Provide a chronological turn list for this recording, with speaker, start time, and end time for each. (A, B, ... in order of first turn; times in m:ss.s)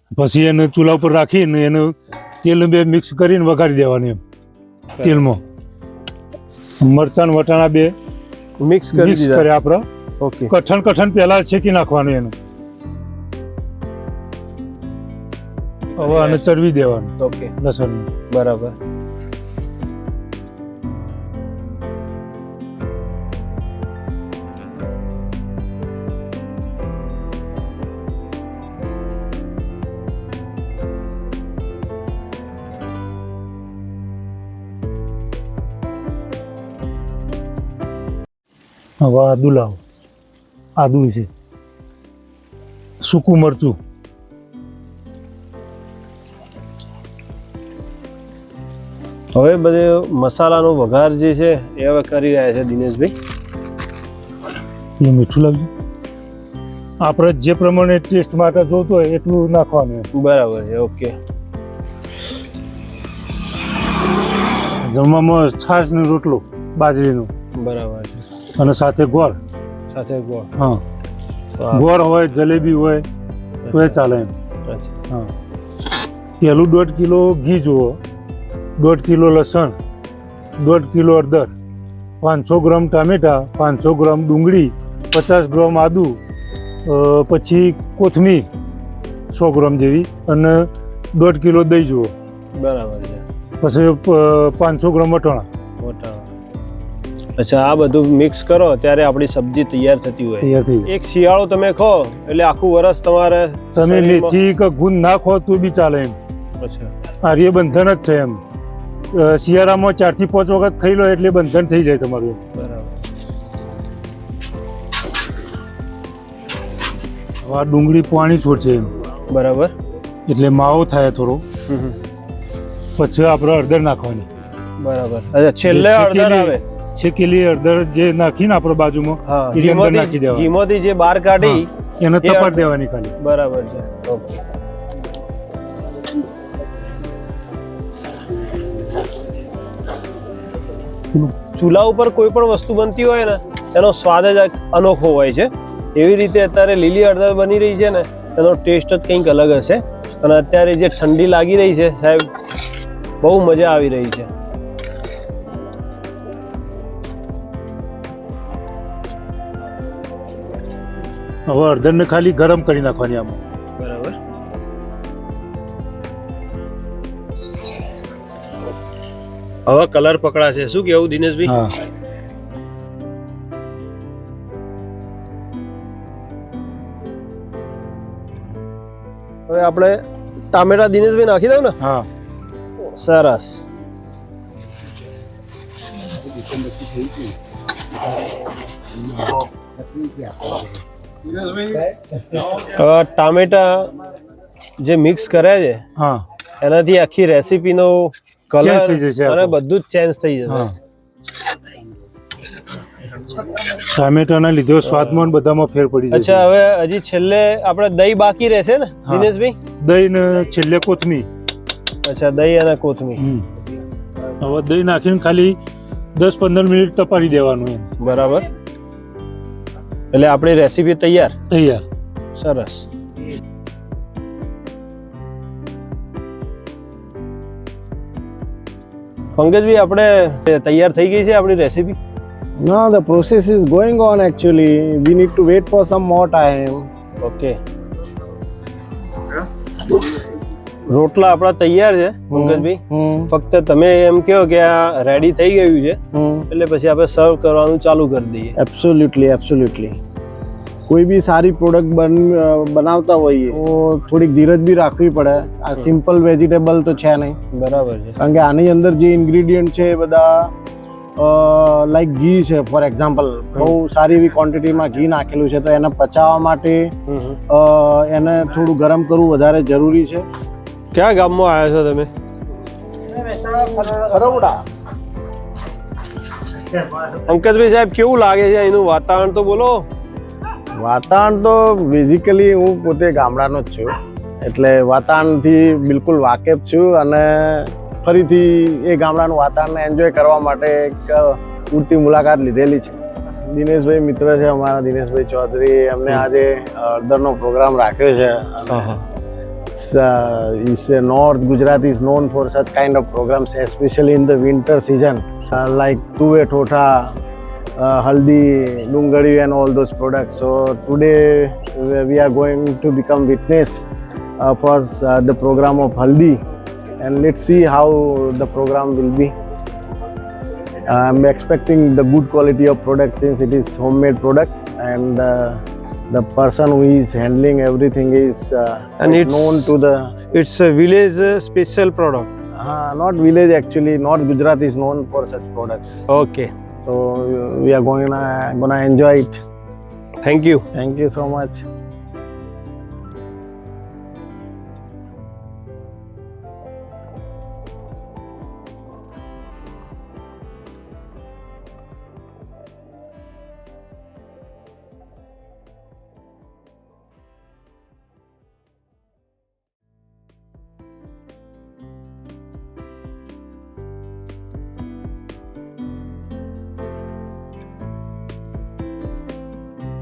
0:00.2-0:04.2 A
0:05.0-0:05.4 A
0:06.8-0:07.9 A
0:08.6-0:09.5 B
0:08.9-0:09.9 A
0:10.2-0:10.5 B
0:10.5-0:12.3 A
0:15.9-0:16.4 B
0:16.0-0:18.1 A
0:17.2-0:17.5 B
0:18.3-0:18.8 B
0:39.0-0:39.8 A
0:40.8-0:41.3 A
0:43.0-0:43.8 A
0:49.4-0:53.1 B
0:55.0-0:55.7 A
0:57.0-1:00.1 A
1:00.1-1:01.2 B
1:04.8-1:07.3 A
1:07.6-1:08.2 B
1:08.6-1:09.4 A
1:09.9-1:10.5 B
1:11.6-1:11.8 B
1:11.7-1:13.0 A
1:13.6-1:14.0 B
1:13.7-1:14.3 A
1:14.7-1:14.9 B
1:16.4-1:18.0 A
1:18.8-1:19.8 A
1:20.6-1:21.5 A
1:22.2-1:26.2 A
1:26.9-1:28.5 A
1:29.3-1:32.1 A
1:32.6-1:33.2 B
1:33.6-1:35.5 A
1:35.8-1:36.3 B
1:37.4-1:44.4 B
1:40.4-1:40.9 A
1:43.8-1:46.2 A
1:46.6-1:46.9 B
1:47.2-1:48.4 A
1:49.1-1:52.4 A
1:52.6-1:52.9 B
1:57.5-1:58.9 A
1:59.3-1:59.7 B
2:00.3-2:01.4 A
2:01.7-2:02.0 B
2:03.0-2:04.3 A
2:04.8-2:06.6 B
2:05.6-2:10.5 A
2:09.2-2:11.7 B
2:11.4-2:13.2 A
2:12.2-2:14.4 B
2:21.5-2:32.3 B
2:33.2-2:34.3 B
2:41.5-2:43.4 A
2:43.8-2:44.2 B
2:49.7-2:51.6 B
2:51.4-2:51.7 A
2:59.5-3:00.0 B
3:00.5-3:01.8 B
3:01.8-3:02.1 A
3:02.8-3:03.6 B
3:12.3-3:13.9 B
3:14.8-3:15.8 B
3:16.0-3:16.2 A
3:16.6-3:20.7 B
3:18.6-3:19.6 A
3:23.7-3:26.5 A
3:24.8-3:25.3 B
3:26.1-3:29.6 B
3:29.8-3:31.3 A
3:32.0-3:33.2 B
3:33.2-3:33.5 A
3:34.4-3:35.6 A
3:36.2-3:37.9 A
3:38.0-3:38.5 B
3:40.1-3:41.4 B
3:41.5-3:41.8 A
3:42.4-3:42.9 B
3:49.4-3:52.0 B
3:52.6-3:56.9 C
3:57.2-3:57.6 B
4:00.9-4:06.0 B
4:02.3-4:03.3 C
4:06.1-4:06.5 C
4:06.5-4:08.6 B
4:08.6-4:10.0 C
4:10.9-4:17.4 C
4:17.5-4:18.2 B
4:18.2-4:20.5 C
4:21.2-4:26.9 C
4:27.1-4:27.4 B
4:27.5-4:30.3 C
4:30.9-4:32.1 B
4:33.1-4:34.6 C
4:37.1-4:39.9 B
4:40.8-4:43.9 C
4:44.4-4:59.0 C
4:58.7-4:59.0 B
4:59.7-5:07.2 C
5:07.8-5:13.9 C
5:14.4-5:16.4 C
5:17.0-5:19.3 C
5:20.8-5:30.1 C
5:29.0-5:29.7 B
5:30.3-5:32.3 B
5:32.6-5:36.0 C
5:36.1-5:36.5 B
5:36.8-5:39.4 C
5:40.2-5:40.6 B
5:40.7-5:41.6 C